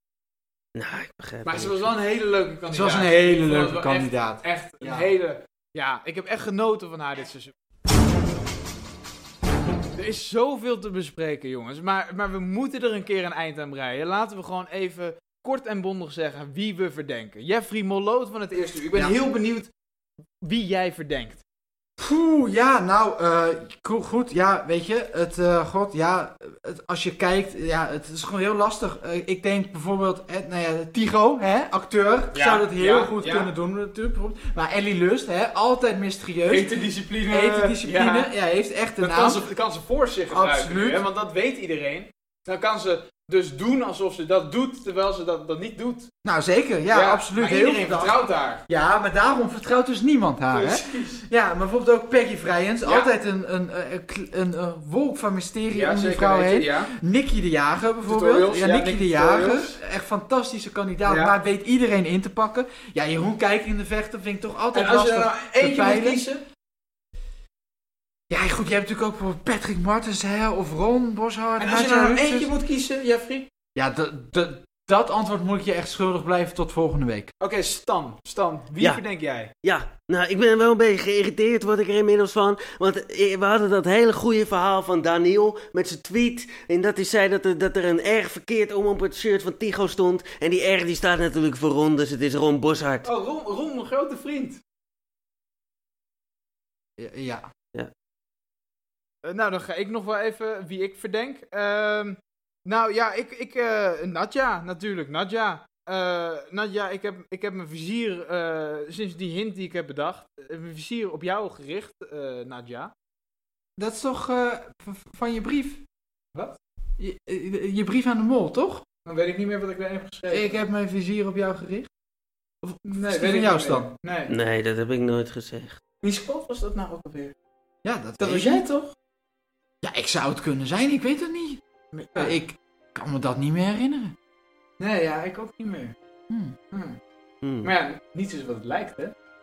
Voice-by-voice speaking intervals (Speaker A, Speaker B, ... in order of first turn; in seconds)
Speaker A: 0.8-1.9, 79.6-93.1, 124.3-125.8, 137.4-137.7
Speaker B: 1.4-7.5, 9.9-19.7, 20.4-21.4, 32.3-33.5, 36.5-38.3, 39.0-46.1, 46.9-48.6, 50.5-51.2, 52.8-53.1, 55.7-56.9, 58.0-59.8, 61.0-61.4, 64.7-66.4, 71.6-73.5, 77.4-79.5, 93.0-94.6, 99.2-112.9, 119.0-120.6, 122.8-124.3, 126.0-127.3, 128.2-128.9, 131.9-132.3, 134.8-135.9, 136.7-137.0, 137.6-139.1
Speaker C: 2.7-5.1, 22.0-36.7, 37.3-39.4, 40.3-41.0, 46.2-66.2, 68.3-72.5, 73.7-77.3, 97.0-97.5, 113.8-115.8, 117.0-118.8, 120.3-121.9, 122.6-123.9, 127.8-128.7, 129.8-131.6, 132.1-134.1, 136.3-136.6